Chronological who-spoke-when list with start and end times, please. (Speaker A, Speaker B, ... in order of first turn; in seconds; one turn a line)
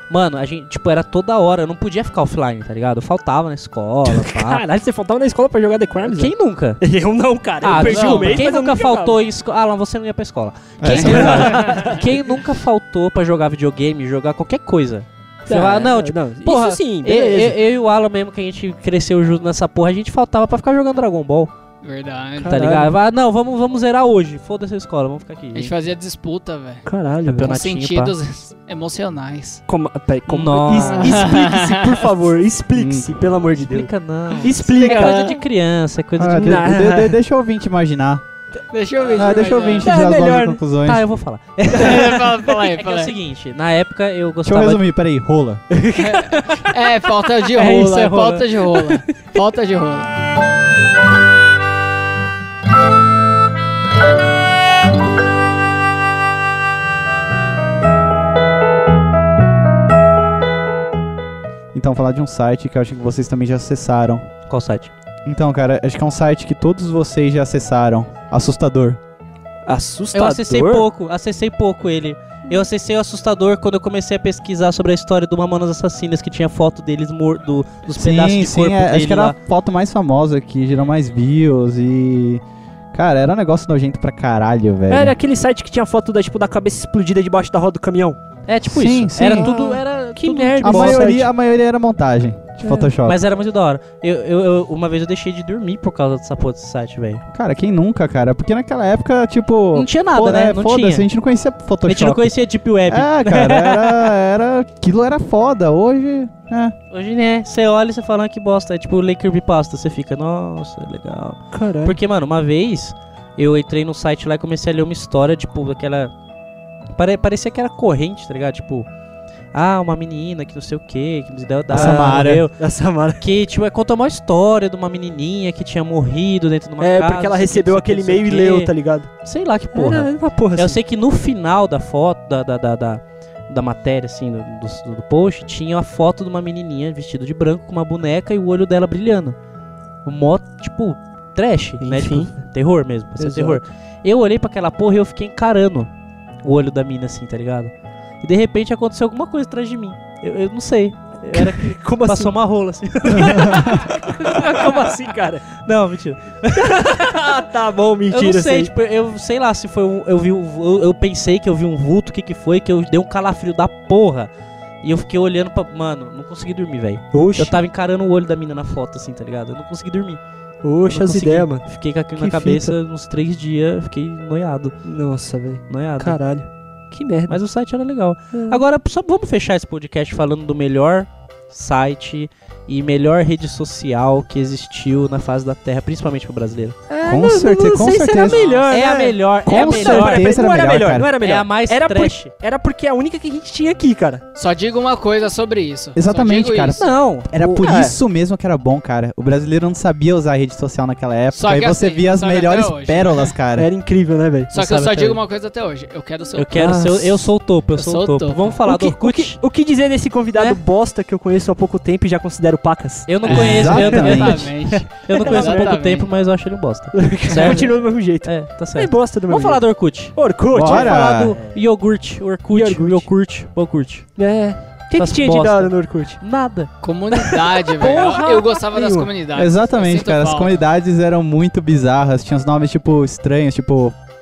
Speaker A: 0.1-4.6
Speaker B: 4.1-9.2
Speaker A: 6.0-6.8
Speaker A: 7.6-21.5
Speaker C: 7.7-8.4
Speaker D: 10.8-11.8
Speaker C: 10.9-12.0
Speaker B: 11.0-12.1
Speaker B: 15.4-17.6
Speaker C: 21.8-22.8
Speaker B: 22.4-22.9
Speaker A: 22.4-25.7
Speaker C: 25.5-26.8
Speaker B: 26.8-27.5
Speaker A: 27.2-28.1
Speaker C: 27.4-29.6
Speaker B: 29.7-35.4
Speaker A: 30.3-31.2
Speaker C: 30.8-32.0
Speaker D: 32.8-33.1
Speaker A: 33.6-36.7
Speaker C: 34.4-35.4
Speaker D: 36.2-38.2
Speaker B: 36.2-37.2
Speaker C: 38.7-39.9
Speaker D: 39.1-41.0
Speaker B: 39.8-40.6
Speaker A: 40.9-44.8
Speaker C: 41.7-43.1
Speaker D: 44.4-45.6
Speaker B: 45.7-46.3
Speaker C: 46.0-50.1
Speaker A: 46.4-46.7
Speaker A: 47.5-48.9
Speaker D: 61.7-64.3
Speaker A: 64.5-64.9
Speaker D: 65.2-69.0
Speaker B: 69.7-70.9
Speaker A: 70.1-79.3
Speaker D: 77.9-82.4
Speaker D: 82.9-85.2
Speaker B: 84.9-88.2
Speaker A: 88.5-91.2
Speaker D: 88.7-89.5
Speaker B: 89.2-91.3
Speaker D: 90.6-93.2
Speaker B: 92.6-92.9
Speaker A: 93.0-97.2
Speaker D: 97.3-102.3
Speaker A: 99.7-101.1
Speaker A: 101.8-104.1
Speaker D: 102.9-106.7
Speaker A: 106.9-116.1
Speaker B: 111.5-112.0
Speaker A: 117.0-118.9
Speaker A: 119.5-122.6
Speaker B: 121.7-123.2
Speaker D: 121.7-122.5
Speaker A: 123.2-139.3
Speaker B: 126.8-129.1
Speaker B: 129.7-130.8
Speaker A: 140.0-145.9
Speaker B: 141.8-142.4
Speaker B: 143.2-143.6
Speaker A: 146.4-154.9
Speaker B: 151.3-152.4
Speaker B: 153.1-155.5
Speaker D: 153.3-153.7
Speaker A: 155.5-157.3
Speaker B: 156.5-158.7
Speaker A: 158.1-164.3
Speaker A: 164.8-170.2
Speaker B: 167.1-167.6
Speaker B: 170.6-172.8
Speaker A: 170.9-174.8
Speaker B: 174.8-177.4
Speaker A: 175.7-176.2
Speaker A: 177.3-186.8
Speaker B: 178.3-178.6
Speaker B: 186.9-194.2
Speaker D: 187.0-188.4
Speaker C: 188.2-188.6
Speaker A: 188.7-192.3
Speaker D: 189.5-191.1
Speaker C: 194.3-196.9
Speaker D: 195.9-203.7
Speaker A: 196.8-197.3
Speaker B: 197.4-198.0
Speaker C: 201.3-203.3
Speaker B: 203.6-204.5
Speaker C: 204.5-206.7
Speaker A: 204.5-205.2
Speaker A: 206.3-209.4
Speaker B: 206.6-207.3
Speaker C: 207.8-208.6
Speaker B: 208.6-213.6
Speaker A: 213.1-224.1
Speaker C: 213.2-216.1
Speaker D: 213.3-214.5
Speaker B: 215.2-215.8
Speaker B: 216.9-221.5
Speaker D: 220.5-221.3
Speaker B: 222.5-223.1
Speaker B: 224.2-226.2
Speaker A: 224.9-226.7
Speaker C: 226.8-230.6
Speaker B: 227.6-229.1
Speaker A: 227.8-228.2
Speaker D: 229.3-233.9